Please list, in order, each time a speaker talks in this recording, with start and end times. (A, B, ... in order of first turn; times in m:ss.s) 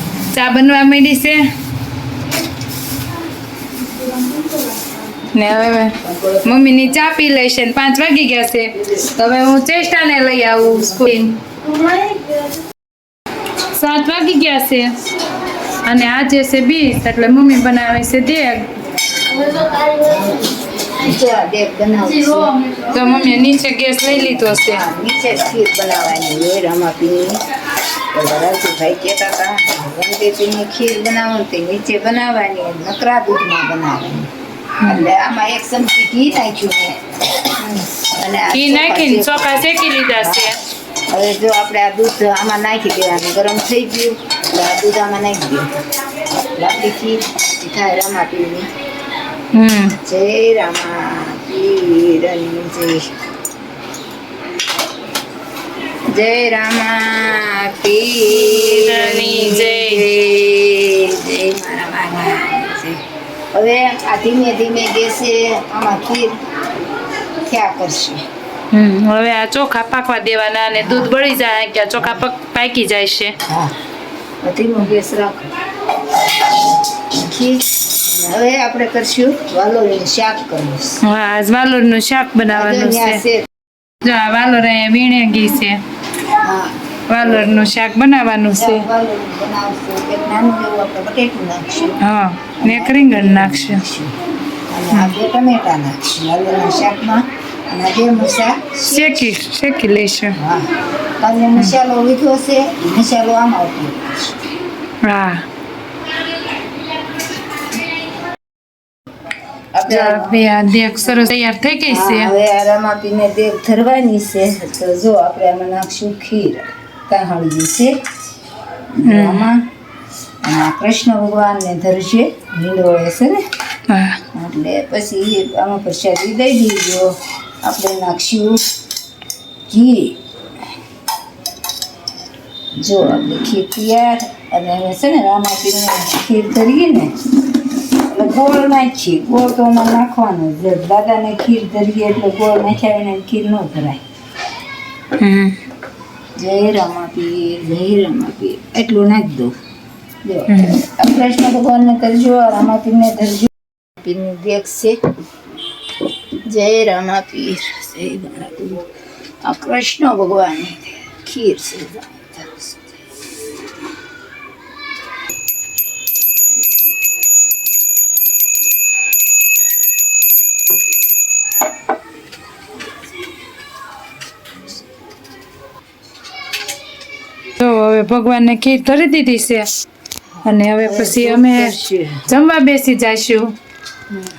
0:00.3-0:01.4 A
0:05.3-0:11.4 A
0:06.0-0:06.4 B
0:13.7-0:14.9 A
0:15.8-0:18.6 A
0:20.9-0:22.5 B
0:22.9-0:24.8 A
0:24.4-0:27.4 B
0:28.1-0:34.3 B
0:34.8-0:37.0 B
0:37.6-0:37.9 A
0:38.2-0:39.7 B
0:38.5-0:40.6 A
0:40.2-0:40.5 B
0:41.1-0:45.8 B
0:46.5-0:48.7 B
0:49.5-0:50.0 A
0:50.0-0:53.1 B
0:56.1-1:03.0 B
0:58.4-1:00.0 A
1:03.5-1:06.3 B
1:07.4-1:08.2 B
1:08.7-1:13.3 A
1:10.8-1:11.1 B
1:13.5-1:13.7 B
1:14.4-1:15.5 B
1:17.1-1:21.0 B
1:21.0-1:23.2 A
1:22.5-1:23.4 B
1:24.0-1:25.8 A
1:26.4-1:27.6 B
1:27.1-1:28.8 A
1:28.5-1:32.0 B
1:32.0-1:33.8 A
1:32.6-1:34.2 B
1:34.7-1:39.2 B
1:38.9-1:40.4 A
1:40.4-1:40.7 B
1:41.2-1:44.4 B
1:45.0-1:45.4 A
1:49.7-1:50.4 B
1:49.9-1:52.3 A
1:51.9-1:57.9 B
1:58.9-1:59.6 B
1:59.1-1:59.5 A
2:00.4-2:03.4 B
2:03.9-2:04.2 A
2:04.3-2:07.1 B
2:07.6-2:08.6 B
2:09.7-2:10.2 B
2:12.8-2:17.1 B
2:18.1-2:24.0 B
2:25.2-2:25.6 A
2:26.4-2:29.5 B
2:30.2-2:35.0 B
2:30.5-2:30.8 A
2:36.5-2:38.8 B
2:39.4-2:42.9 B
2:57.6-2:59.7 A
3:00.4-3:02.2 B
3:00.4-3:01.7 A
3:02.3-3:03.4 A